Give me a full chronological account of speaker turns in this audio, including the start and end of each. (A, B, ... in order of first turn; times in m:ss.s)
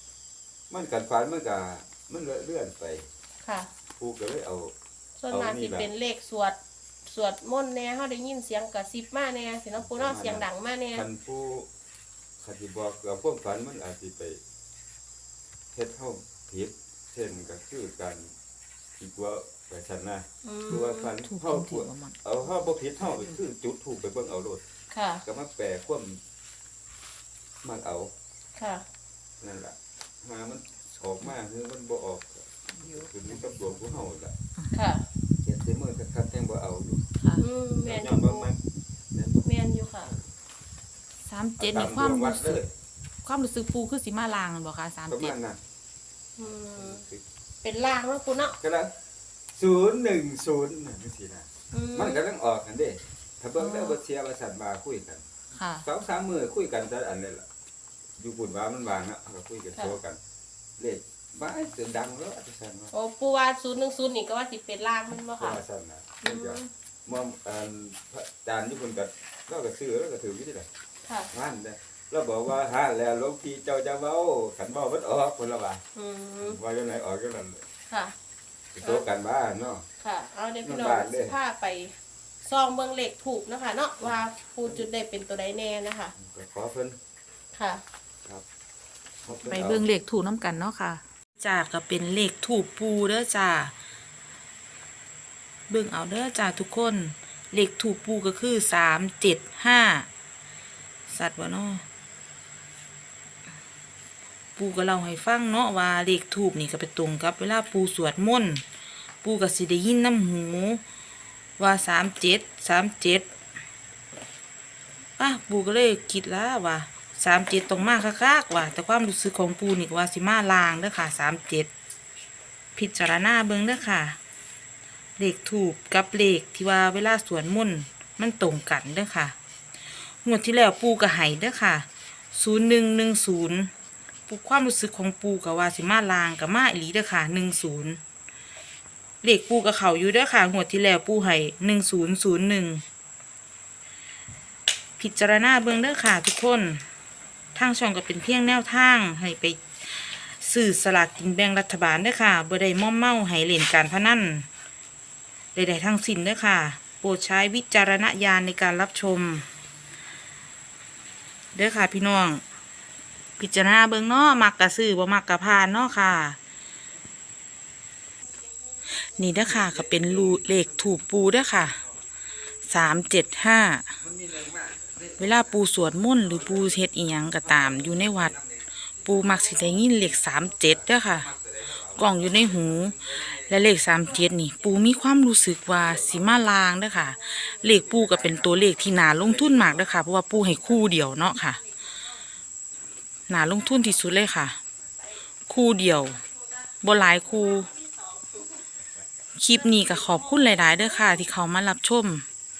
0:00.7-0:03.0 A
0:03.4-0:03.7 B
0:04.0-0:04.7 A
0:05.2-0:11.0 B
0:05.3-0:05.9 A
0:09.8-0:11.7 A
0:12.4-0:14.4 A
0:15.7-0:18.3 A
0:19.0-0:24.6 A
0:20.4-0:21.1 B
0:21.2-0:23.4 C
0:24.9-0:25.2 B
0:25.2-0:26.2 A
0:27.6-0:28.1 A
0:28.6-0:28.8 B
0:29.4-0:34.4 A
0:32.7-0:34.0 C
0:34.7-0:35.0 B
0:35.4-0:37.0 A
0:37.2-0:37.4 C
0:37.4-0:38.5 B
0:37.8-0:38.6 A
0:39.1-0:39.5 A
0:39.4-0:40.1 B
0:41.2-0:42.6 C
0:41.6-0:42.7 A
0:43.2-0:45.3 C
0:45.1-0:45.6 A
0:46.4-0:47.0 B
0:46.7-0:47.2 A
0:47.6-0:48.6 B
0:48.5-0:48.9 A
0:49.5-0:55.2 A
0:51.7-0:52.2 B
0:53.6-0:54.0 C
0:55.5-0:55.8 C
0:55.8-0:57.4 A
0:58.2-1:00.2 A
1:00.8-1:02.9 A
1:02.9-1:05.6 B
1:05.4-1:10.7 A
1:06.2-1:06.7 B
1:11.0-1:11.3 B
1:11.3-1:15.8 A
1:15.9-1:16.6 B
1:16.4-1:17.6 A
1:17.9-1:18.1 B
1:18.8-1:19.8 A
1:20.0-1:26.1 B
1:20.6-1:21.4 A
1:24.0-1:24.9 A
1:26.2-1:27.0 A
1:27.5-1:27.8 B
1:29.2-1:29.9 A
1:29.4-1:33.7 C
1:35.7-1:40.1 C
1:41.1-1:41.8 C
1:44.6-1:48.6 C
1:49.2-1:50.8 C
1:51.6-1:53.3 C
1:55.2-2:01.7 C
2:02.8-2:04.2 C
2:05.2-2:09.3 C
2:10.2-2:13.7 C
2:14.3-2:18.0 C
2:19.2-2:22.8 C
2:25.0-2:26.8 C
2:27.5-2:34.5 C
2:35.5-2:39.5 C
2:41.5-2:42.4 C
2:43.4-2:46.4 C
2:49.0-2:51.8 C
2:49.4-2:51.0 A
2:52.6-2:53.9 C
2:54.0-2:55.7 A
2:55.2-2:58.3 C
2:56.2-2:56.8 A
2:57.4-2:59.8 A
2:59.0-3:01.3 C
3:00.6-3:03.7 A
3:01.9-3:11.6 C
3:05.8-3:06.4 A
3:07.8-3:08.5 A
3:09.3-3:09.7 A
3:13.3-3:14.6 C
3:15.5-3:16.2 C
3:16.8-3:17.7 C
3:19.4-3:22.2 C